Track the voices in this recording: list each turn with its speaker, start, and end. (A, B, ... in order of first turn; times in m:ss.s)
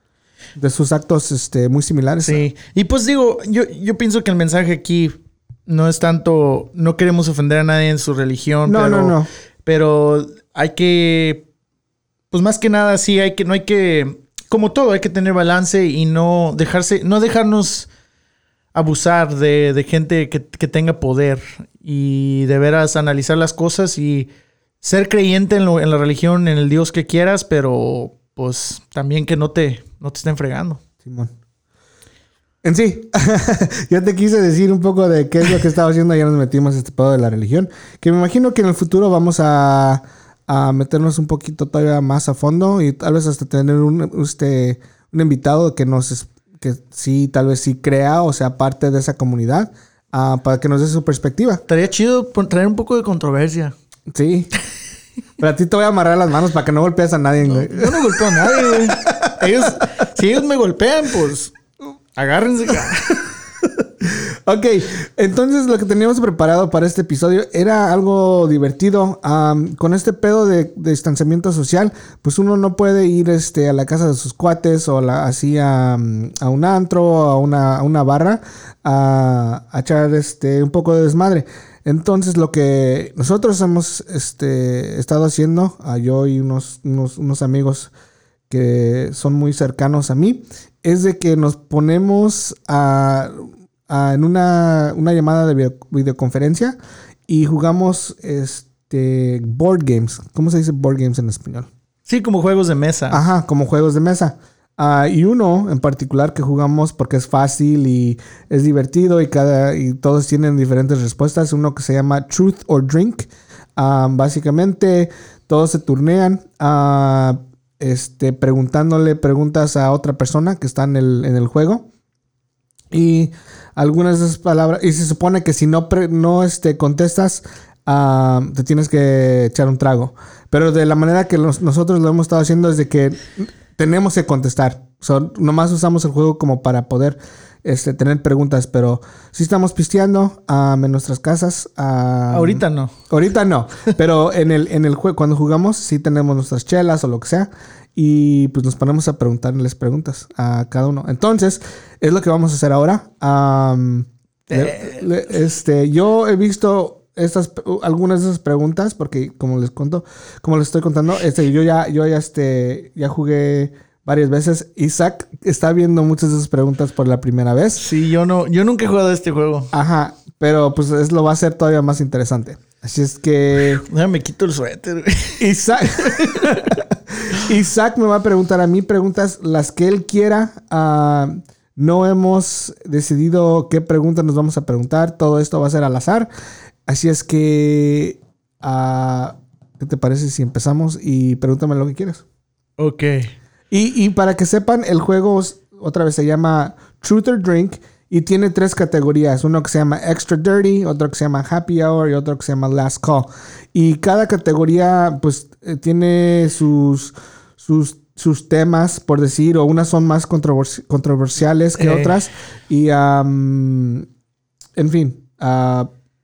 0:00.6-0:02.4 A
0:02.2-0:05.2 B
0:05.7-0:11.5 B
0:08.6-0:09.3 A
0:12.3-0:17.9 B
0:18.7-0:24.3 B
0:24.8-0:30.8 B
0:31.0-0:31.3 A
0:32.6-0:51.6 A
0:51.7-0:53.7 B
0:54.1-0:54.5 A
0:55.4-0:59.7 A
0:57.4-1:01.6 B
1:02.2-1:03.2 B
1:03.6-1:27.9 A
1:28.5-1:36.8 A
1:37.3-1:41.7 A
1:42.1-1:43.2 B
1:43.1-2:01.9 A
2:02.9-2:47.9 A
2:22.3-2:22.9 B
2:34.5-2:35.1 B
2:47.8-2:49.7 B
2:49.7-2:53.8 A
2:53.7-2:56.8 B
2:55.4-3:06.3 A
3:06.9-3:12.2 A
3:12.8-3:13.3 B
3:13.7-3:34.1 A
3:31.8-3:32.2 B
3:34.8-3:35.9 A